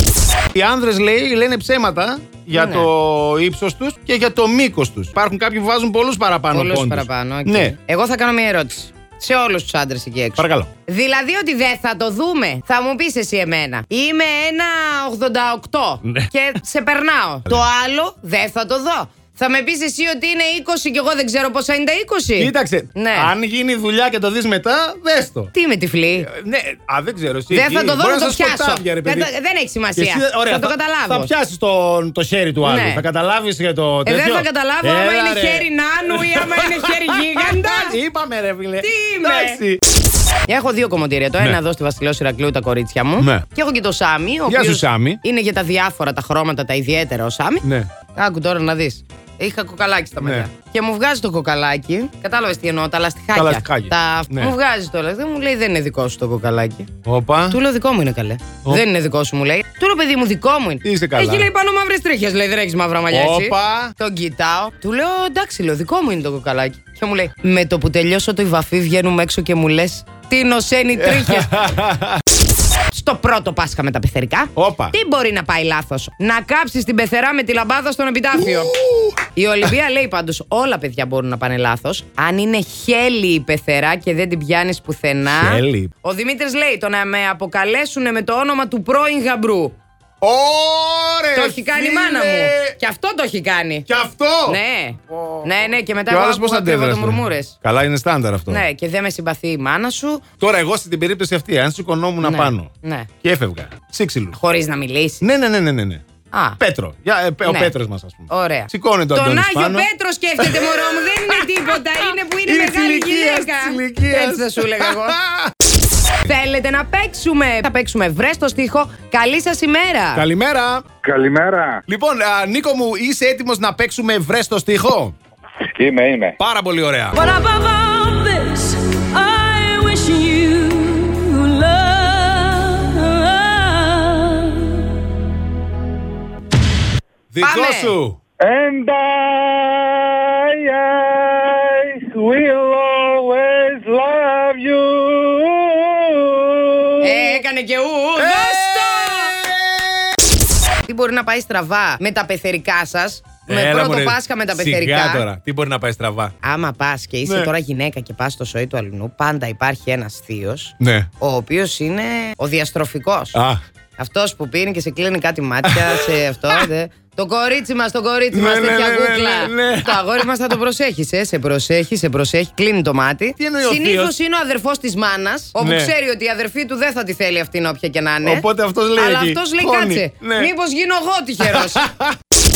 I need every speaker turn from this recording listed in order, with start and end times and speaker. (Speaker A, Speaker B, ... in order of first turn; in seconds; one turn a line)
Speaker A: 0.5-7.7
Speaker B: 2.5-2.9
Speaker B: 6.5-23.3
Speaker A: 10.4-10.7
Speaker A: 22.4-25.5
Speaker B: 25.5-26.3
Speaker A: 26.2-29.3
Speaker B: 27.5-31.3
Speaker A: 29.9-39.8
Speaker B: 32.6-33.0
Speaker B: 34.0-38.0
Speaker B: 38.8-39.6
Speaker B: 40.5-47.6
Speaker A: 43.2-43.5
Speaker A: 44.5-45.2
Speaker A: 47.6-47.9
Speaker B: 48.1-56.9
Speaker A: 50.2-50.5
Speaker A: 53.3-54.5
Speaker A: 57.0-57.6
Speaker B: 57.5-71.7
Speaker A: 60.8-61.5
Speaker A: 63.1-63.9
Speaker A: 71.0-72.2
Speaker B: 72.9-78.7
Speaker A: 74.5-74.9
Speaker A: 78.4-79.1
Speaker B: 79.3-89.7
Speaker A: 85.3-85.9
Speaker A: 90.2-92.7
Speaker B: 91.3-93.9
Speaker A: 93.9-94.6
Speaker B: 94.5-97.5
Speaker A: 96.1-98.6
Speaker B: 98.5-100.2
Speaker A: 100.4-102.7
Speaker B: 102.2-103.1
Speaker A: 103.2-104.3
Speaker B: 104.3-105.2
Speaker A: 105.2-106.0
Speaker B: 106.3-106.6
Speaker A: 106.6-111.5
Speaker B: 107.4-107.7
Speaker B: 108.3-115.2
Speaker A: 112.4-115.5
Speaker B: 116.2-120.2
Speaker A: 120.1-120.8
Speaker C: 121.0-121.8
Speaker A: 121.9-125.1
Speaker C: 125.7-126.3
Speaker A: 126.4-127.2
Speaker D: 127.2-134.9
Speaker A: 137.3-138.2
Speaker B: 137.4-137.9
Speaker C: 138.4-147.0
Speaker B: 147.0-149.4
Speaker A: 148.2-150.2
Speaker B: 150.8-155.2
Speaker A: 153.5-156.3
Speaker B: 156.4-163.4
Speaker A: 157.2-157.5
Speaker A: 160.8-161.1
Speaker A: 163.3-163.6
Speaker B: 164.0-181.8
Speaker A: 165.6-166.7
Speaker A: 168.3-170.3
Speaker A: 173.4-174.1
Speaker A: 175.6-175.9
Speaker A: 178.2-180.5
Speaker A: 181.4-182.1